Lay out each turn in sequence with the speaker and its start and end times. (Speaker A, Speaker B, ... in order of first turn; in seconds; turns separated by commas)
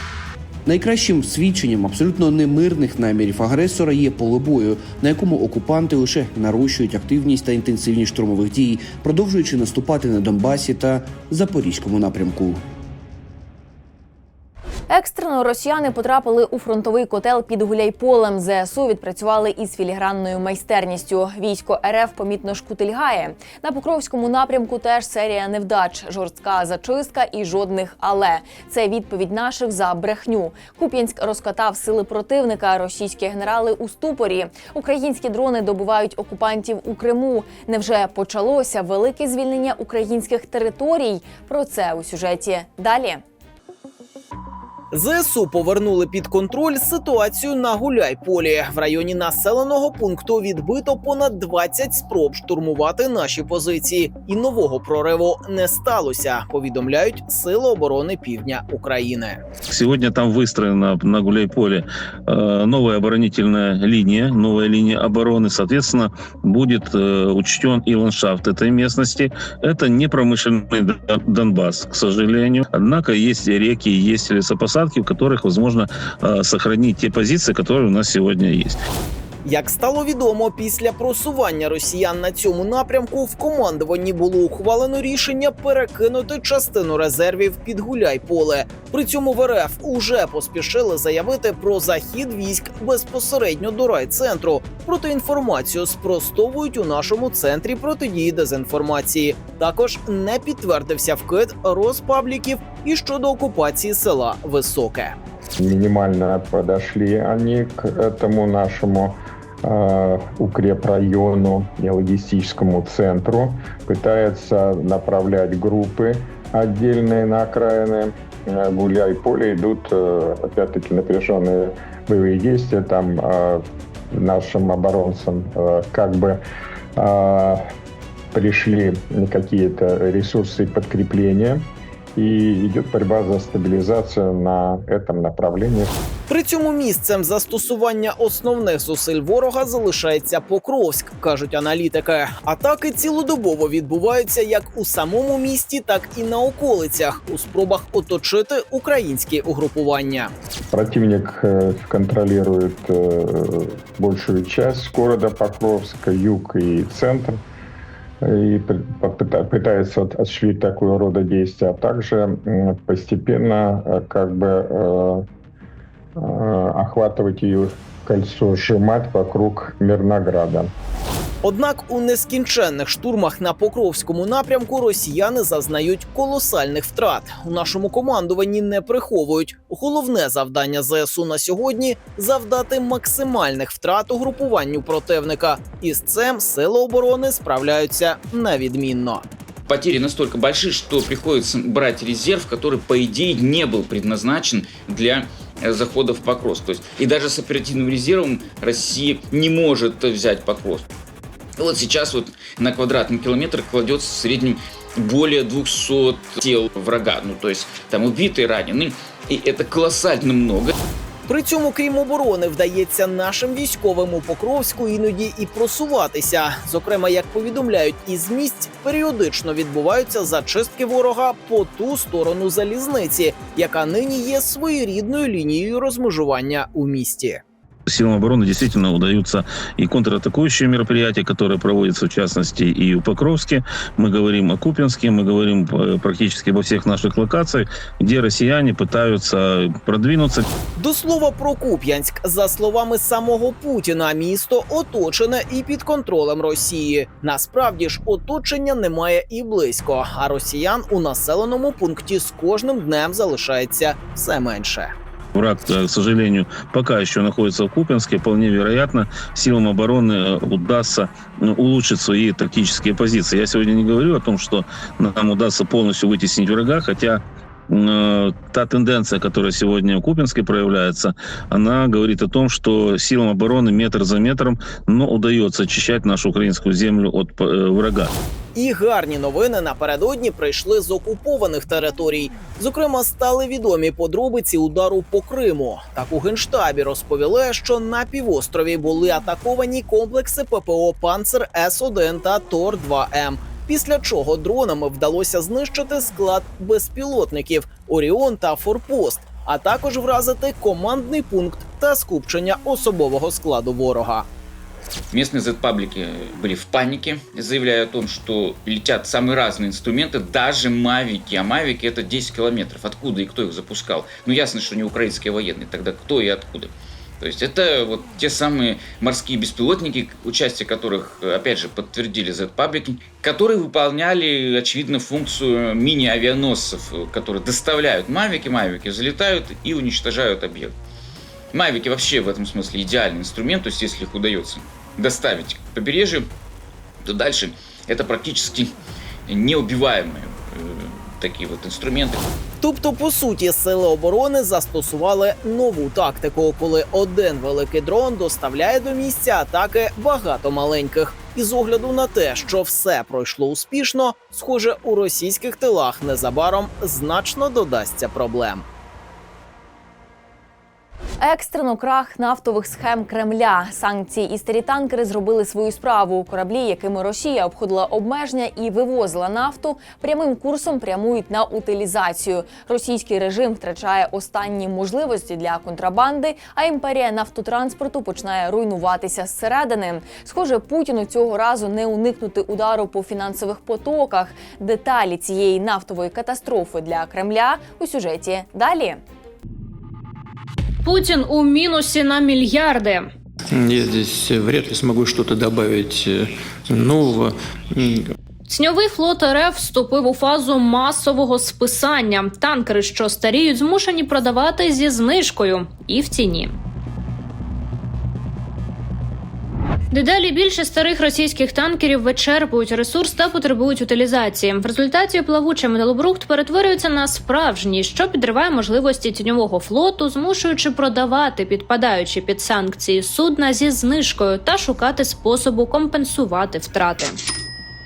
Speaker A: 0.7-12.6, Speaker B: 14.9-43.2, Speaker C: 44.9-59.4, Speaker D: 59.7-78.8, Speaker C: 79.5-105.2, Speaker E: 105.6-123.6, Speaker E: 124.1-126.4, Speaker E: 127.0-127.6, Speaker E: 128.3-131.7, Speaker E: 132.2-135.9, Speaker C: 136.3-150.3, Speaker E: 150.7-157.4, Speaker E: 158.3-165.2, Speaker E: 166.2-170.7, Speaker C: 171.4-189.2, Speaker F: 189.7-200.9, Speaker F: 201.6-210.7, Speaker C: 211.3-227.4, Speaker D: 227.9-240.4, Speaker C: 240.8-254.9, Speaker D: 255.3-278.1, Speaker C: 278.6-304.3, Speaker F: 305.1-330.7, Speaker F: 331.5-336.3, Speaker F: 337.0-338.7, Speaker F: 339.3-342.2, Speaker C: 342.6-358.6, Speaker B: 361.2-389.0, Speaker G: 390.8-393.1, Speaker H: 393.5-398.1, Speaker G: 398.5-406.6, Speaker G: 409.9-427.2